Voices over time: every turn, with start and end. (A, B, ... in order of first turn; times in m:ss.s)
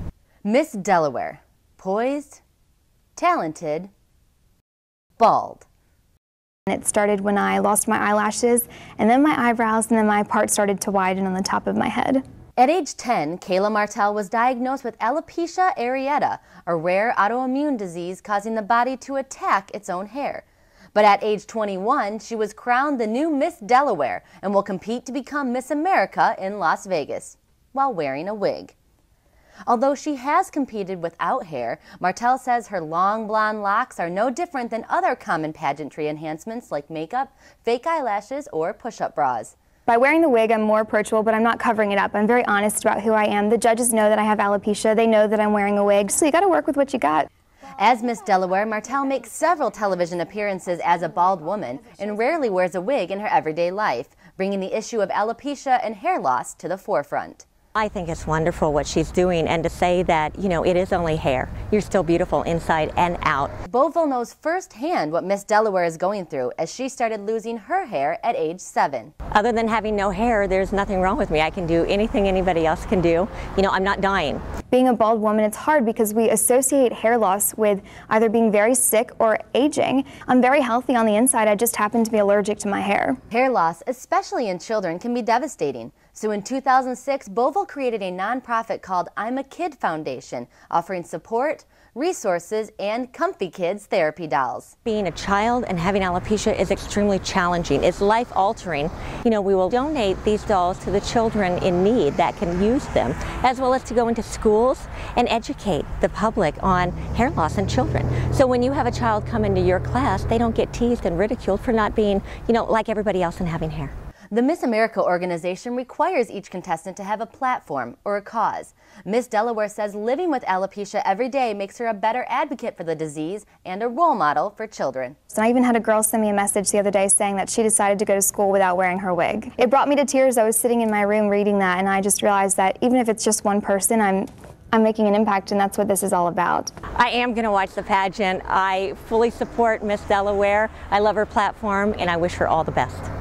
0:00.4-0:02.4 A
0:03.2-0:03.9 A
0:05.2-0:05.6 A
0:06.7-0:12.2 B
0:12.6-0:20.4 A
0:20.9-0:28.7 A
0:29.7-0:39.5 A
0:39.9-0:47.3 B
0:47.8-0:57.4 A
0:57.8-1:03.5 C
1:03.7-1:09.1 A
1:09.3-1:14.4 C
1:14.7-1:23.2 B
1:23.3-1:34.7 A
1:34.8-1:53.9 C
1:54.3-2:05.2 A
2:05.3-2:16.7 B
2:16.9-2:23.1 C